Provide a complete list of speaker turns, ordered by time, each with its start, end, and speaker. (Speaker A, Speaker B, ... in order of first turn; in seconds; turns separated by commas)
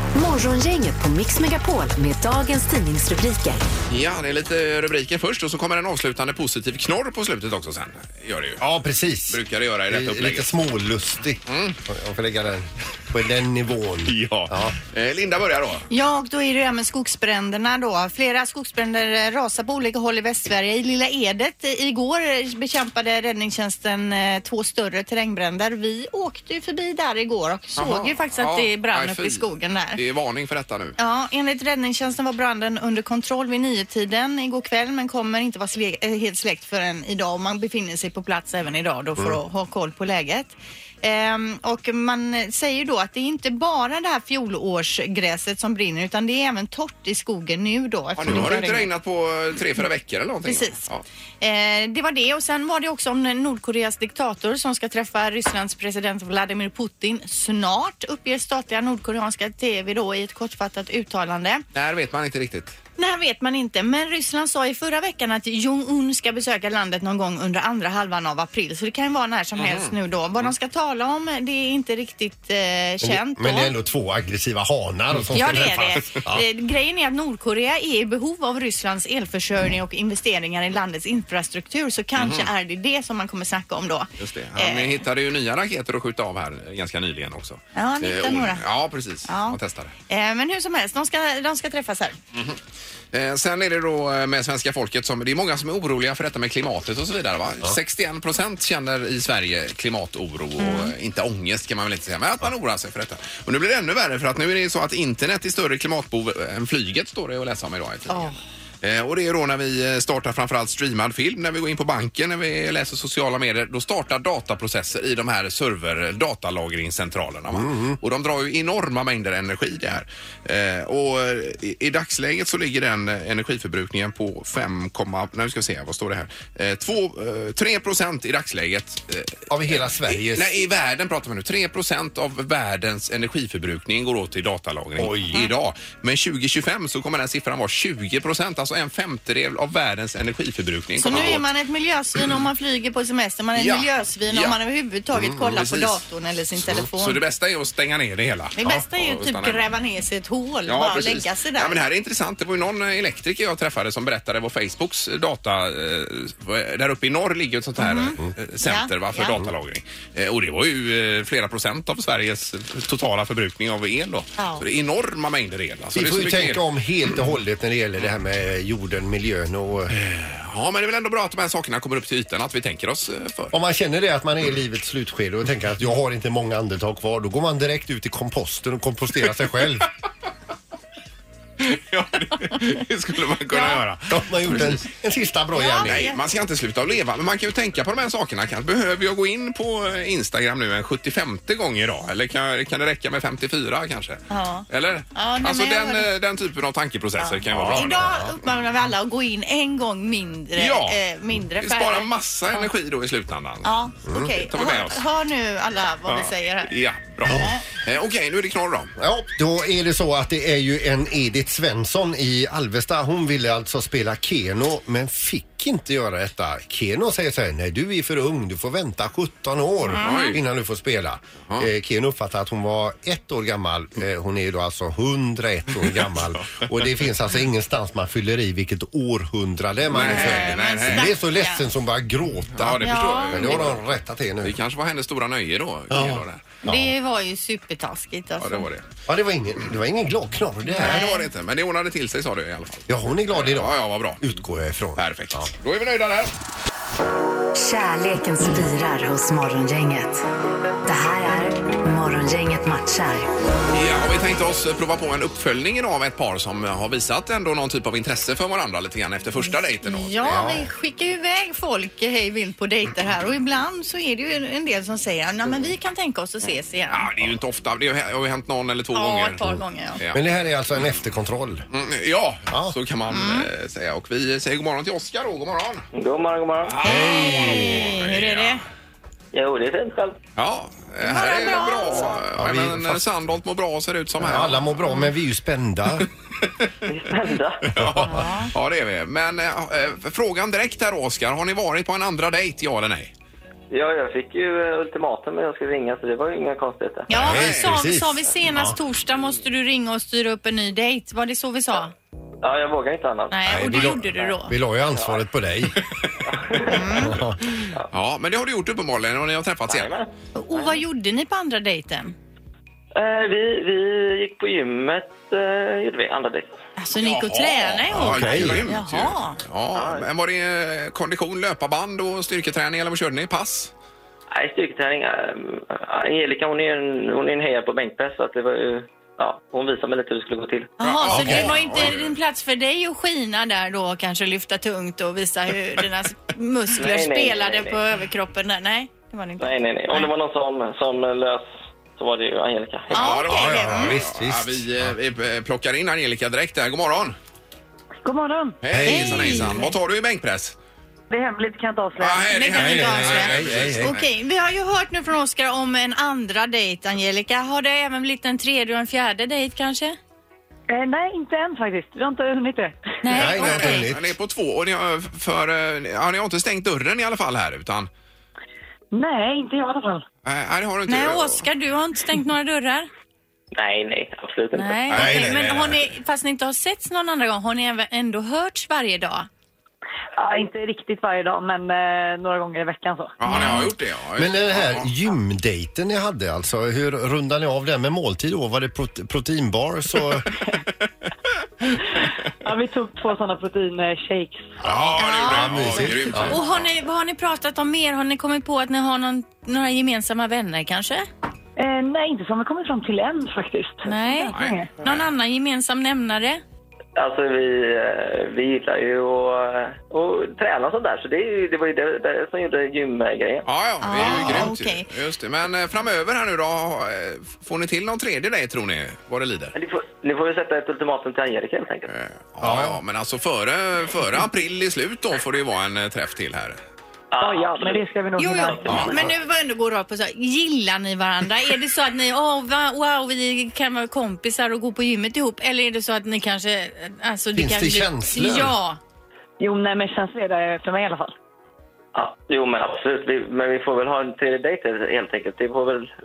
Speaker A: 0.1-3.6, Speaker B: 3.9-8.6, Speaker C: 8.6-14.8, Speaker B: 9.3-10.5, Speaker B: 11.5-11.8, Speaker B: 14.1-15.8, Speaker D: 15.9-30.0, Speaker B: 27.8-30.9, Speaker D: 31.0-48.9, Speaker B: 48.1-51.0, Speaker D: 50.4-50.8, Speaker D: 51.4-61.6, Speaker B: 61.7-62.7, Speaker D: 63.0-73.7, Speaker B: 69.5-70.5, Speaker C: 73.0-76.5, Speaker B: 75.2-76.1, Speaker D: 75.3-85.0, Speaker B: 82.2-82.5, Speaker B: 84.2-89.9, Speaker D: 87.7-88.7, Speaker D: 89.2-92.1, Speaker B: 93.1-141.4, Speaker D: 100.6-100.9, Speaker D: 108.1-108.4, Speaker C: 117.5-118.0, Speaker C: 129.5-130.6, Speaker C: 135.0-135.4, Speaker D: 140.9-147.2, Speaker B: 143.6-144.6, Speaker C: 145.1-145.4, Speaker B: 145.4-146.0, Speaker B: 146.9-149.6, Speaker D: 148.6-151.8, Speaker B: 150.7-166.6, Speaker D: 157.8-159.3, Speaker D: 164.4-164.6, Speaker C: 165.9-169.9, Speaker B: 169.9-173.6, Speaker C: 173.5-179.9, Speaker B: 181.6-184.8, Speaker D: 183.5-183.8, Speaker C: 184.1-186.1, Speaker D: 185.5-186.2, Speaker B: 185.8-198.2, Speaker D: 194.3-196.1, Speaker D: 197.2-202.7, Speaker C: 197.5-198.3, Speaker B: 200.6-201.0, Speaker B: 201.6-203.7, Speaker D: 203.6-206.8, Speaker C: 204.1-204.3, Speaker B: 204.4-205.0, Speaker B: 206.1-208.9, Speaker C: 209.0-234.6, Speaker D: 219.8-220.4, Speaker B: 220.0-220.4, Speaker B: 225.9-226.7, Speaker B: 229.9-231.1, Speaker D: 230.0-231.7, Speaker B: 232.5-233.9, Speaker D: 232.8-233.7, Speaker B: 234.4-236.4, Speaker C: 235.9-236.9, Speaker D: 236.6-238.7, Speaker B: 238.4-238.8, Speaker C: 239.1-241.1, Speaker D: 240.7-241.3, Speaker B: 240.8-244.3, Speaker C: 242.9-245.5, Speaker B: 245.0-246.3, Speaker A: 247.6-250.2, Speaker A: 250.8-253.3, Speaker B: 253.7-260.5, Speaker D: 259.8-267.1, Speaker C: 260.2-260.7, Speaker B: 266.9-269.4, Speaker D: 268.9-270.0, Speaker C: 269.4-271.6, Speaker B: 270.0-270.9, Speaker B: 271.7-275.8, Speaker C: 272.5-272.8, Speaker D: 273.1-273.5, Speaker E: 275.9-276.8, Speaker B: 276.6-278.6, Speaker C: 276.8-277.9, Speaker D: 276.8-278.6, Speaker E: 279.3-280.2, Speaker B: 280.4-285.1, Speaker D: 281.0-282.2, Speaker C: 282.3-283.0, Speaker C: 284.2-286.1, Speaker B: 286.4-286.7, Speaker E: 286.9-287.7, Speaker B: 287.7-293.1, Speaker C: 287.8-288.3, Speaker D: 288.0-288.5, Speaker E: 293.7-297.1, Speaker D: 297.1-301.9, Speaker C: 297.1-298.8, Speaker B: 297.1-297.8, Speaker E: 302.4-304.4, Speaker D: 303.3-304.5, Speaker C: 303.4-305.8, Speaker E: 304.9-305.3, Speaker E: 306.2-307.0, Speaker C: 306.5-307.4, Speaker D: 306.6-307.2, Speaker B: 307.6-309.9, Speaker E: 309.6-310.8, Speaker D: 310.4-312.1, Speaker E: 312.9-316.5, Speaker D: 316.8-319.4, Speaker B: 316.9-323.7, Speaker C: 317.9-318.6, Speaker E: 319.7-320.1, Speaker E: 324.3-330.7, Speaker D: 330.8-340.1, Speaker B: 330.8-332.2, Speaker C: 331.1-331.6, Speaker E: 336.7-337.8, Speaker E: 339.4-341.4, Speaker E: 342.0-343.1, Speaker D: 342.9-344.0, Speaker B: 342.9-347.1, Speaker C: 343.2-344.9, Speaker F: 348.0-348.6, Speaker B: 348.6-350.6, Speaker C: 348.7-349.6, Speaker D: 348.8-349.7, Speaker F: 351.1-352.8, Speaker B: 352.0-354.1, Speaker D: 352.3-359.9, Speaker C: 352.5-353.9, Speaker F: 360.7-362.7, Speaker D: 363.0-363.9, Speaker C: 363.1-364.1, Speaker B: 363.3-367.9, Speaker F: 368.9-370.0, Speaker B: 370.2-371.4, Speaker D: 370.9-372.9, Speaker E: 373.5-375.1, Speaker D: 374.5-379.3, Speaker B: 374.9-375.8, Speaker C: 374.9-375.8, Speaker F: 380.2-383.6, Speaker B: 383.2-384.9, Speaker C: 383.3-390.2, Speaker F: 392.4-394.4, Speaker B: 394.6-396.6, Speaker C: 394.6-396.4, Speaker D: 394.9-401.0, Speaker F: 401.6-404.7, Speaker D: 403.8-406.4, Speaker B: 404.3-405.1, Speaker E: 406.9-413.5, Speaker B: 413.4-419.5, Speaker D: 413.8-414.9, Speaker C: 413.9-414.5, Speaker E: 419.5-421.9, Speaker B: 421.9-426.6, Speaker C: 422.4-422.8, Speaker E: 427.1-427.9, Speaker F: 427.2-428.9, Speaker D: 428.2-438.8, Speaker E: 428.5-429.1, Speaker C: 437.3-438.5, Speaker F: 439.4-441.1, Speaker E: 441.9-445.9